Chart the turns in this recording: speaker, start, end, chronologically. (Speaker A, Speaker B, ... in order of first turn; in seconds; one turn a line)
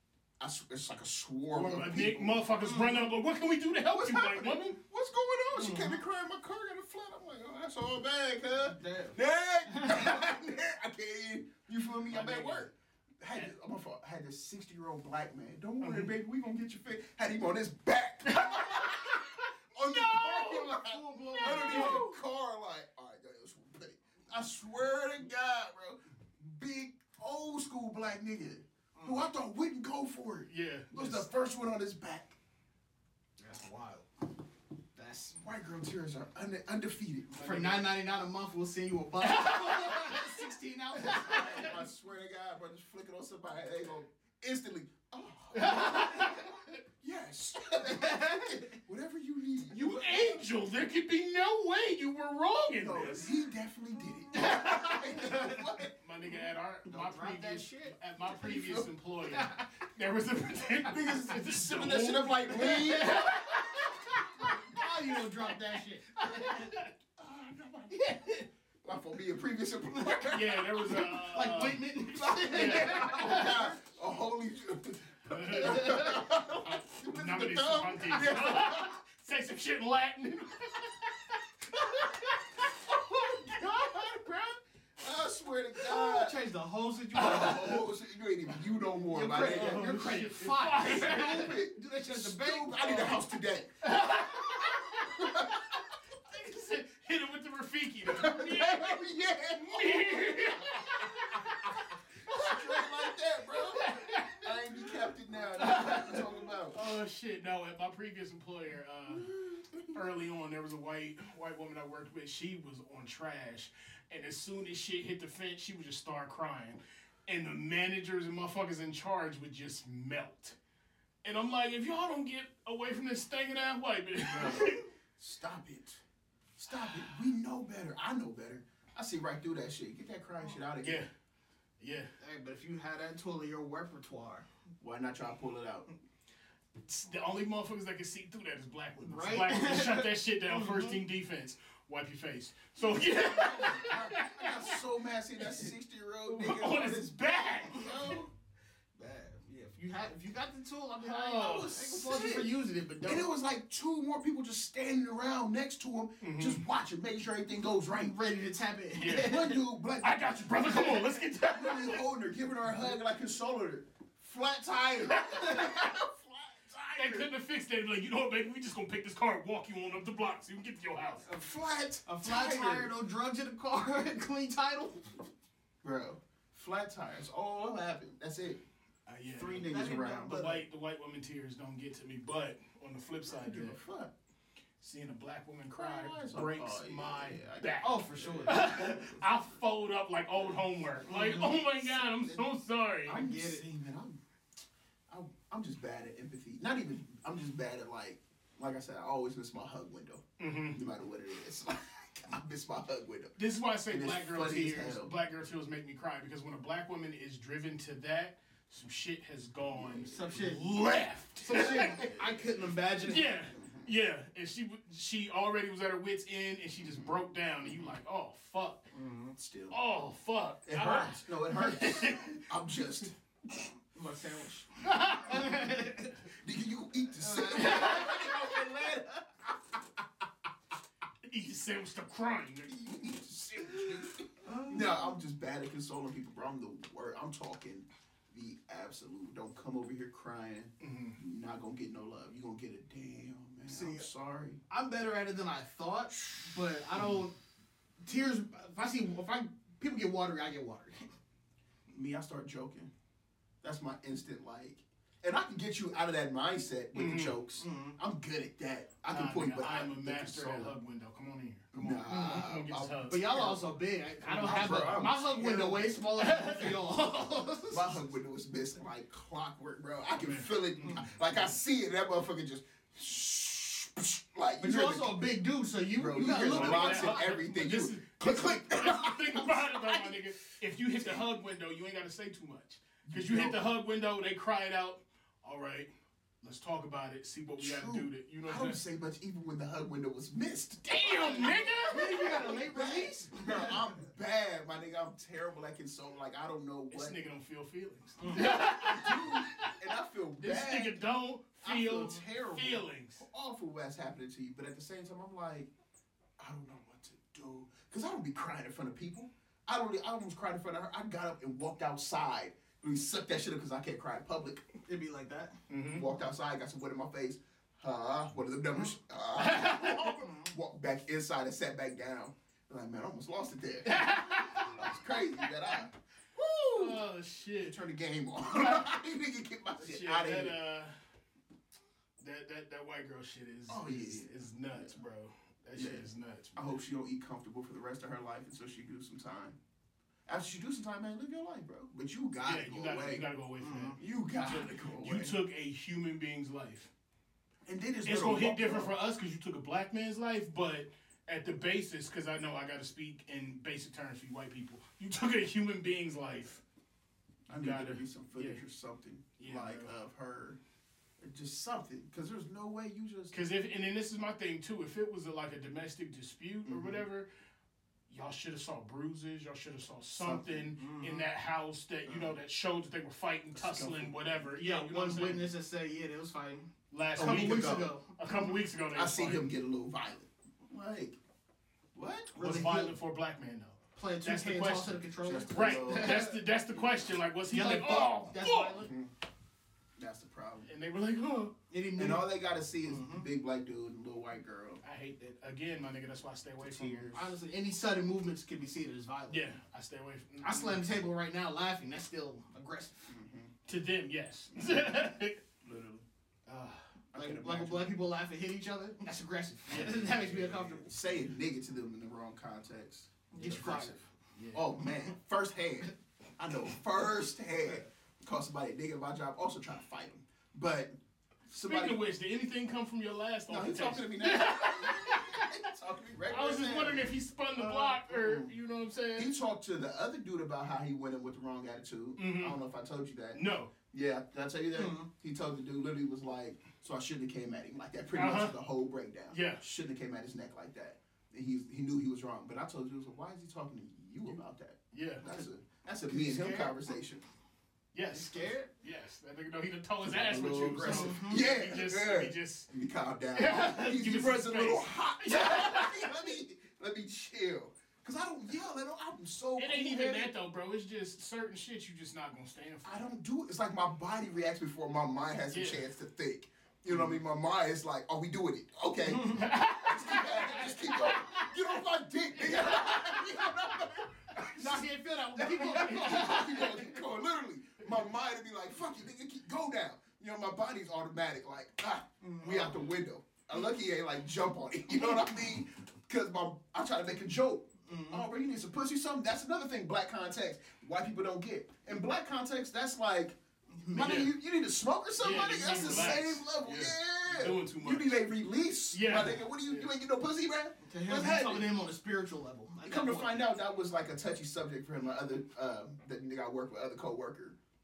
Speaker A: 0.4-2.8
Speaker B: 1.5-4.8
Speaker C: 2.6-3.0
Speaker A: 3.9-32.4
Speaker C: 5.5-6.0
Speaker C: 8.7-9.2
Speaker B: 12.1-12.7
Speaker B: 15.8-16.1
Speaker B: 18.3-22.1
Speaker C: 20.9-22.1
Speaker C: 29.0-29.3
Speaker B: 30.5-31.3
Speaker C: 33.4-34.1
Speaker C: 34.9-35.4
Speaker A: 35.4-37.5
Speaker B: 37.3-37.9
Speaker C: 37.3-41.8
Speaker B: 39.2-40.4
Speaker A: 41.0-50.4
Speaker B: 41.0-41.5
Speaker B: 45.5-46.7
Speaker C: 47.9-48.6
Speaker B: 49.7-53.3
Speaker A: 52.7-55.9
Speaker B: 54.5-54.9
Speaker C: 55.2-55.5
Speaker B: 56.0-64.4
Speaker C: 56.9-58.0
Speaker A: 58.2-58.9
Speaker C: 59.3-59.6
Speaker A: 60.8-64.9
Speaker C: 64.7-66.7
Speaker B: 66.3-66.9
Speaker A: 67.2-71.2
Speaker B: 70.3-71.9
Speaker C: 71.0-73.8
Speaker A: 72.1-79.0
Speaker B: 72.5-73.5
Speaker B: 75.2-82.4
Speaker A: 82.6-86.4
Speaker C: 85.8-87.8
Speaker A: 87.1-90.1
Speaker C: 89.1-93.2
Speaker B: 89.4-91.5
Speaker A: 90.7-93.7
Speaker B: 93.8-95.3
Speaker A: 94.9-95.8
Speaker B: 96.2-99.0
Speaker A: 98.0-106.8
Speaker B: 99.6-102.8
Speaker B: 103.5-104.5
Speaker B: 105.6-109.3
Speaker A: 109.1-110.0
Speaker B: 109.9-120.6
Speaker B: 121.2-124.8
Speaker A: 124.2-126.0
Speaker A: 126.6-131.0
Speaker B: 130.8-131.1
Speaker B: 131.8-132.1
Speaker C: 132.2-134.4
Speaker A: 134.8-135.9
Speaker B: 136.8-144.8
Speaker C: 139.0-141.0
Speaker A: 142.8-148.3
Speaker B: 146.3-148.1
Speaker C: 148.9-153.3
Speaker B: 151.0-151.8
Speaker A: 151.4-158.2
Speaker B: 156.2-156.6
Speaker C: 157.9-159.6
Speaker B: 158.9-159.4
Speaker A: 159.1-167.3
Speaker B: 160.0-162.1
Speaker B: 166.9-171.3
Speaker C: 171.2-175.2
Speaker A: 171.4-172.9
Speaker A: 175.8-178.6
Speaker B: 179.1-183.8
Speaker A: 179.3-180.4
Speaker C: 179.6-180.6
Speaker A: 183.3-184.1
Speaker B: 184.8-193.2
Speaker A: 185.7-189.6
Speaker C: 187.8-188.8
Speaker C: 191.1-191.5
Speaker A: 191.9-192.4
Speaker A: 193.0-194.2
Speaker C: 193.1-193.6
Speaker A: 195.1-205.1
Speaker B: 200.4-200.8
Speaker B: 203.3-212.2
Speaker A: 209.7-210.1
Speaker C: 210.0-210.7
Speaker C: 211.4-213.3
Speaker A: 211.6-212.6
Speaker B: 213.0-218.9
Speaker A: 213.5-213.9
Speaker A: 216.8-217.1
Speaker C: 218.9-219.3
Speaker A: 219.3-219.8
Speaker B: 219.7-222.4
Speaker A: 220.6-223.1
Speaker C: 223.9-226.1
Speaker B: 224.8-225.5
Speaker A: 226.3-229.5
Speaker C: 227.2-228.4
Speaker B: 227.6-228.1
Speaker B: 231.3-232.7
Speaker A: 232.7-244.6
Speaker C: 234.4-235.1
Speaker B: 240.8-241.2
Speaker C: 243.7-244.1
Speaker C: 244.7-247.3
Speaker C: 248.0-251.0
Speaker A: 251.9-252.9
Speaker A: 253.6-260.8
Speaker B: 256.9-257.4
Speaker C: 257.6-258.0
Speaker B: 259.1-263.4
Speaker A: 261.7-263.7
Speaker C: 262.1-262.4
Speaker C: 263.1-268.0
Speaker A: 264.2-266.0
Speaker B: 264.2-265.1
Speaker B: 266.2-266.8
Speaker A: 267.7-275.3
Speaker B: 270.1-271.1
Speaker C: 274.6-277.3
Speaker A: 275.9-280.3
Speaker B: 276.2-285.9
Speaker A: 280.9-281.3
Speaker A: 283.0-283.7
Speaker B: 286.4-288.8
Speaker A: 287.6-297.2
Speaker B: 290.9-292.4
Speaker C: 291.8-293.8
Speaker B: 296.9-299.7
Speaker C: 298.2-298.7
Speaker A: 298.3-301.1
Speaker B: 300.4-303.2
Speaker A: 301.6-305.7
Speaker A: 306.4-314.6
Speaker C: 314.9-315.6
Speaker B: 315.7-316.1
Speaker A: 315.9-327.0
Speaker B: 319.4-320.2
Speaker B: 323.8-325.5
Speaker B: 326.7-327.8
Speaker A: 327.6-330.6
Speaker B: 328.5-328.9
Speaker B: 329.8-330.9
Speaker B: 332.2-336.8
Speaker A: 333.7-335.0
Speaker A: 335.7-339.6
Speaker A: 340.2-343.3
Speaker B: 342.4-346.9
Speaker C: 343.6-344.0
Speaker A: 343.9-345.4
Speaker A: 347.6-348.9
Speaker B: 348.0-356.6
Speaker A: 357.5-360.6
Speaker B: 357.5-358.6
Speaker B: 359.4-359.9
Speaker A: 361.2-363.4
Speaker B: 363.3-367.3
Speaker A: 366.6-367.0
Speaker B: 368.1-375.5
Speaker A: 370.2-370.8
Speaker C: 370.8-371.3
Speaker A: 372.1-372.4
Speaker A: 373.5-374.4
Speaker C: 374.5-378.6
Speaker B: 376.9-379.5
Speaker A: 377.1-378.0
Speaker A: 378.9-381.2
Speaker A: 381.9-382.7
Speaker C: 382.3-382.9
Speaker B: 382.3-388.9
Speaker C: 383.9-386.4
Speaker A: 385.2-387.1
Speaker C: 387.5-388.9
Speaker A: 388.5-389.1
Speaker A: 389.9-390.7
Speaker B: 390.6-391.6
Speaker C: 391.7-392.3
Speaker A: 391.9-394.8
Speaker C: 392.8-393.2
Speaker B: 394.8-397.1
Speaker A: 396.6-397.3
Speaker C: 397.1-399.6
Speaker B: 399.3-400.8
Speaker C: 400.4-403.0
Speaker A: 403.1-403.5
Speaker B: 403.6-405.4
Speaker A: 404.5-404.8
Speaker A: 405.6-406.1
Speaker B: 406.5-406.8
Speaker A: 407.1-408.0
Speaker C: 407.1-410.9
Speaker B: 409.6-410.5
Speaker A: 410.1-414.0
Speaker C: 413.3-414.1
Speaker B: 413.4-414.7
Speaker A: 414.5-420.9
Speaker A: 421.5-422.0
Speaker B: 421.6-425.6
Speaker A: 423.5-428.5
Speaker B: 426.3-429.3
Speaker A: 429.1-447.2
Speaker B: 432.2-432.6
Speaker B: 433.3-433.7
Speaker C: 434.7-435.1
Speaker B: 438.1-438.6
Speaker B: 439.3-439.6
Speaker B: 444.9-445.2
Speaker C: 446.1-446.7
Speaker B: 447.9-452.7
Speaker C: 448.1-448.7
Speaker A: 450.0-460.3
Speaker C: 450.8-451.4
Speaker B: 453.3-456.1
Speaker B: 459.6-463.1
Speaker A: 462.8-493.4
Speaker B: 465.5-465.8
Speaker B: 469.3-471.5
Speaker B: 472.6-473.2
Speaker C: 474.5-476.8
Speaker B: 475.7-476.4
Speaker C: 482.2-482.9
Speaker C: 487.9-488.2
Speaker C: 493.7-494.3
Speaker A: 493.9-501.8
Speaker B: 495.2-498.2
Speaker B: 498.9-499.9
Speaker C: 500.8-503.5
Speaker A: 502.8-507.6